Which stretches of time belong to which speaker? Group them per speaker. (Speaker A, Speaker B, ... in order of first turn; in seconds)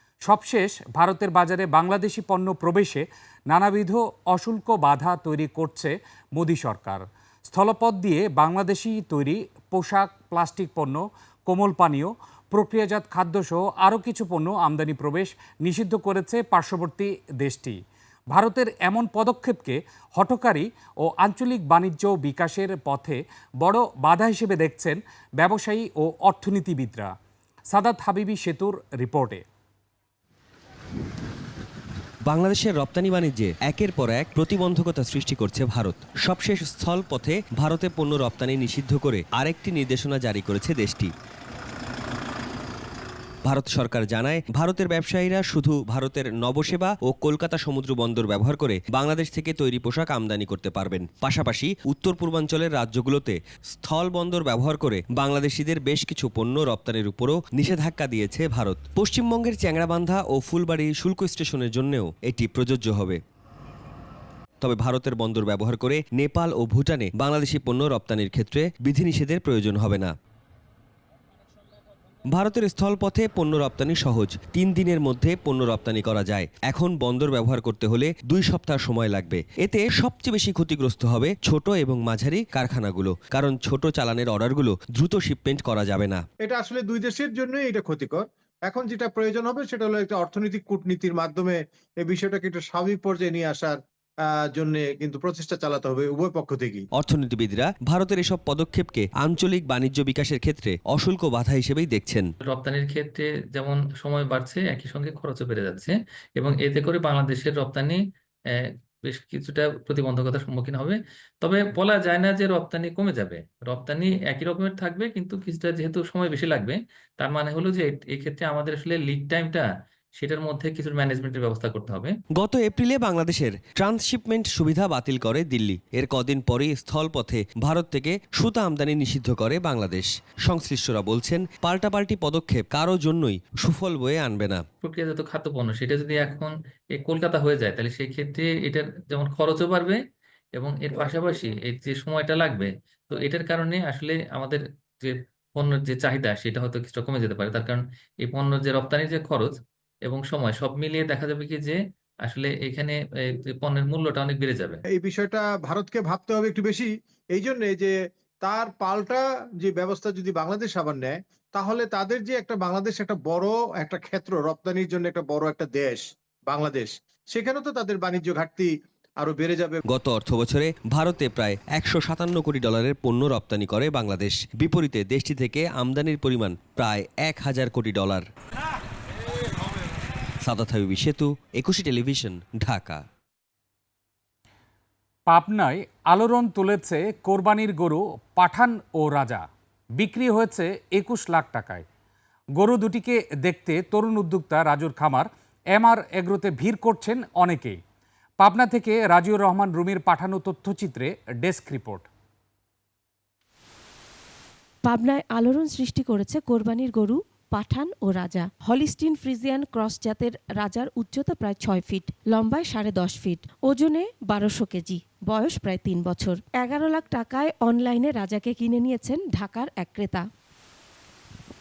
Speaker A: 0.2-17.8, 18.3-27.1, 27.7-29.4, 185.3-189.4, 190.0-191.8, 192.6-197.8, 198.4-202.1
Speaker B: 32.3-41.1, 43.4-63.2, 64.6-70.2, 72.3-86.2, 97.0-102.3, 122.3-134.6, 169.9-178.2, 180.4-183.0
Speaker C: 86.4-96.8, 154.9-169.8
Speaker D: 102.5-108.0, 108.6-122.1, 134.8-140.0, 140.6-154.8
Speaker E: 204.8-220.2